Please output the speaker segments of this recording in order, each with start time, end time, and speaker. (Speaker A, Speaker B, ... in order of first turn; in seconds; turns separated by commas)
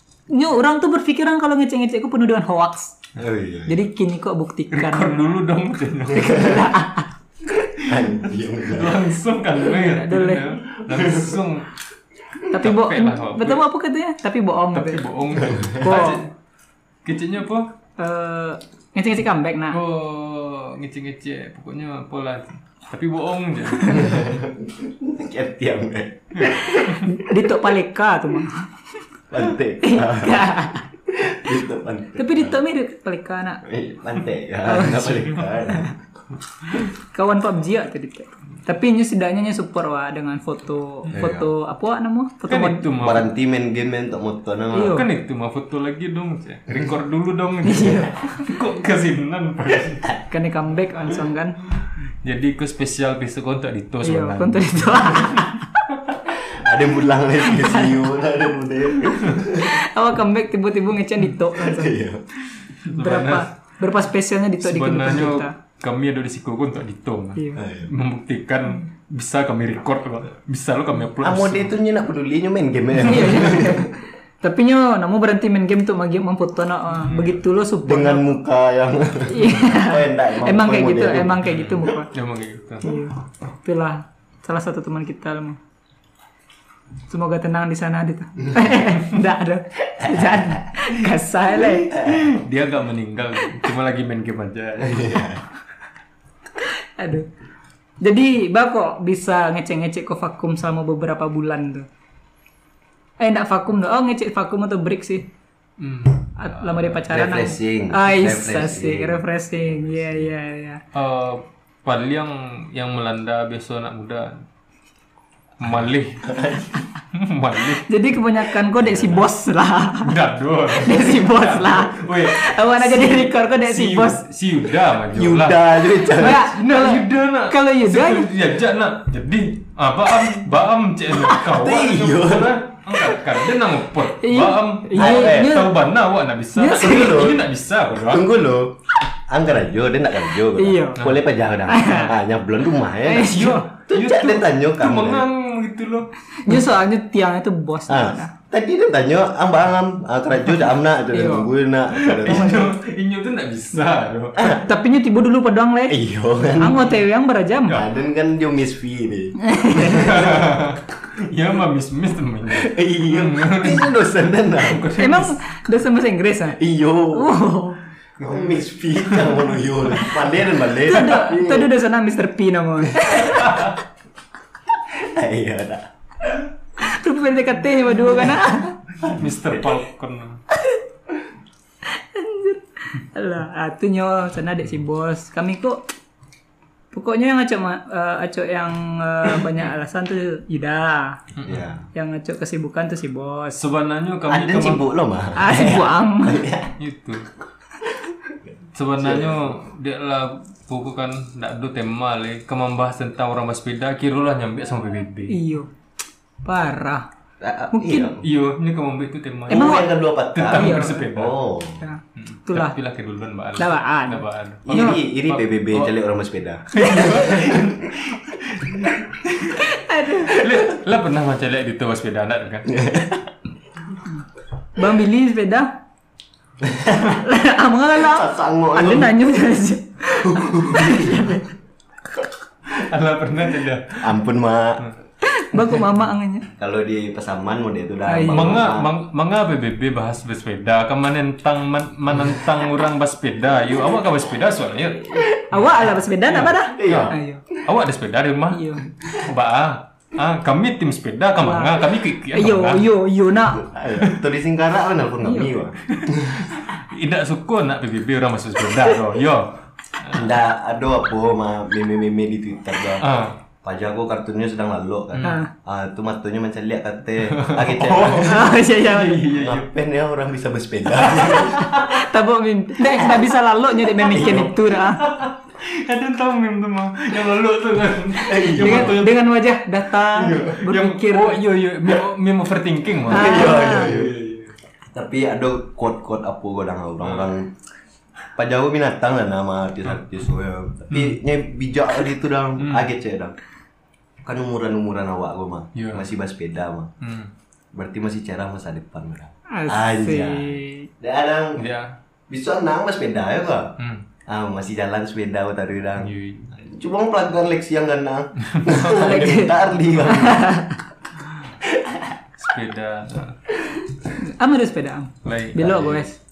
Speaker A: 0.3-3.0, Speaker B: 3.1-3.8, Speaker A: 3.6-5.2, Speaker C: 4.7-6.6, Speaker A: 6.1-7.1, Speaker B: 7.8-9.0, Speaker C: 8.6-11.7, Speaker A: 9.7-10.5, Speaker B: 10.9-11.3, Speaker A: 12.5-15.0, Speaker C: 12.5-13.6, Speaker C: 14.7-16.3, Speaker A: 15.7-16.2, Speaker C: 17.0-17.7, Speaker A: 18.0-19.8, Speaker C: 19.7-24.2, Speaker A: 23.8-24.2, Speaker B: 24.0-26.8, Speaker C: 26.3-27.1, Speaker A: 26.5-28.7, Speaker B: 29.3-30.4, Speaker A: 29.8-30.8, Speaker B: 31.1-32.6, Speaker A: 32.1-33.6, Speaker B: 33.6-36.0, Speaker A: 34.7-35.2, Speaker C: 34.9-35.3, Speaker A: 36.9-42.9, Speaker B: 41.1-41.5, Speaker C: 42.5-43.3, Speaker B: 43.0-45.0, Speaker A: 44.7-45.1, Speaker C: 44.8-50.1, Speaker A: 47.6-48.5, Speaker A: 50.3-51.6, Speaker C: 51.8-55.5, Speaker A: 54.0-55.6, Speaker B: 56.3-59.8, Speaker A: 57.4-58.0, Speaker A: 59.6-62.0, Speaker B: 61.5-62.2, Speaker C: 62.8-63.5, Speaker A: 62.8-65.5, Speaker C: 64.6-71.7, Speaker A: 67.3-67.6, Speaker B: 67.6-67.9, Speaker B: 71.2-73.9, Speaker A: 73.0-78.4, Speaker C: 77.1-77.3, Speaker B: 77.8-81.5, Speaker A: 79.3-82.1, Speaker C: 81.4-82.9, Speaker A: 82.8-85.6, Speaker A: 87.1-92.0, Speaker B: 90.0-90.7, Speaker C: 91.9-95.4, Speaker B: 92.0-92.3, Speaker B: 94.8-95.4, Speaker A: 96.6-97.3, Speaker A: 98.0-101.9, Speaker A: 103.2-105.3, Speaker C: 105.8-106.9, Speaker A: 106.4-110.8, Speaker B: 107.1-109.2, Speaker B: 109.9-110.2, Speaker C: 110.9-114.4, Speaker C: 115.6-117.9, Speaker B: 116.3-116.7, Speaker A: 117.8-120.1, Speaker B: 118.7-119.2, Speaker C: 120.0-138.2, Speaker A: 120.7-124.2, Speaker B: 125.1-126.5, Speaker A: 125.9-128.3, Speaker B: 131.2-132.6, Speaker A: 134.0-135.8, Speaker B: 134.9-135.7, Speaker A: 136.5-137.3, Speaker B: 136.7-145.2, Speaker A: 140.5-141.1, Speaker A: 141.7-142.2, Speaker A: 143.0-143.7, Speaker C: 143.2-146.1, Speaker A: 146.4-148.3, Speaker B: 147.9-152.7, Speaker A: 151.1-151.5, Speaker C: 151.9-154.6, Speaker A: 152.2-152.7, Speaker B: 154.4-154.6, Speaker A: 154.4-157.8, Speaker B: 155.9-156.9, Speaker B: 157.7-160.6, Speaker A: 159.4-160.2, Speaker C: 159.8-165.3, Speaker B: 162.5-164.9, Speaker A: 165.0-166.6, Speaker B: 166.6-167.3, Speaker A: 167.1-167.8, Speaker C: 168.2-170.2, Speaker B: 168.2-171.7, Speaker A: 170.7-173.8, Speaker B: 174.8-176.4, Speaker A: 176.8-178.8, Speaker C: 179.0-180.4, Speaker B: 179.0-179.7, Speaker A: 181.8-185.8, Speaker A: 186.9-191.2, Speaker C: 191.3-191.7, Speaker B: 191.4-191.8, Speaker A: 191.9-193.6, Speaker C: 193.6-194.8, Speaker B: 194.3-196.8, Speaker A: 195.3-196.5, Speaker C: 196.8-197.3, Speaker B: 198.1-198.3, Speaker C: 198.7-205.4, Speaker B: 199.0-199.6, Speaker A: 205.3-205.7, Speaker A: 206.4-207.1, Speaker B: 207.4-208.2, Speaker A: 207.7-208.1, Speaker C: 208.2-211.4, Speaker A: 209.5-209.9, Speaker B: 209.5-211.8, Speaker A: 210.5-211.0, Speaker A: 211.8-212.7, Speaker C: 212.1-215.9, Speaker A: 213.6-215.0, Speaker B: 214.6-217.8, Speaker C: 216.7-219.6, Speaker A: 219.5-220.5, Speaker C: 220.2-222.7, Speaker B: 222.7-223.3, Speaker A: 224.8-225.7, Speaker B: 226.6-227.2, Speaker A: 227.0-231.5, Speaker B: 227.9-229.3, Speaker B: 230.1-231.4, Speaker C: 232.7-234.1, Speaker B: 234.0-234.9, Speaker A: 235.2-236.5, Speaker B: 236.6-238.9, Speaker A: 238.1-238.6, Speaker C: 238.3-252.8, Speaker A: 244.9-247.4, Speaker B: 246.7-247.2, Speaker A: 248.5-248.9, Speaker A: 251.4-253.7, Speaker B: 253.5-256.4, Speaker A: 255.2-256.2, Speaker C: 256.4-260.4, Speaker B: 260.1-268.5, Speaker C: 263.0-263.4, Speaker A: 265.2-265.5, Speaker C: 267.2-269.6, Speaker A: 268.2-269.2, Speaker B: 269.2-271.7, Speaker C: 271.0-271.9, Speaker A: 271.2-275.0, Speaker B: 274.0-274.5, Speaker C: 274.2-279.2, Speaker B: 278.2-279.0, Speaker A: 278.4-281.4, Speaker C: 280.1-284.5, Speaker A: 283.1-283.9, Speaker B: 283.1-284.4, Speaker B: 284.9-287.5, Speaker B: 288.4-293.4, Speaker C: 290.9-291.2, Speaker C: 292.6-292.9, Speaker B: 294.2-296.9, Speaker C: 295.7-296.1, Speaker C: 297.0-297.3, Speaker B: 297.7-301.6, Speaker A: 299.5-300.9, Speaker C: 301.6-301.9, Speaker B: 302.3-303.7, Speaker C: 303.8-304.0, Speaker B: 304.3-310.6, Speaker C: 306.0-306.5, Speaker C: 308.4-309.2, Speaker A: 308.8-310.8, Speaker C: 309.8-310.4, Speaker B: 311.6-312.2, Speaker C: 312.4-313.4, Speaker A: 314.1-316.1, Speaker C: 315.2-315.7, Speaker B: 315.6-316.1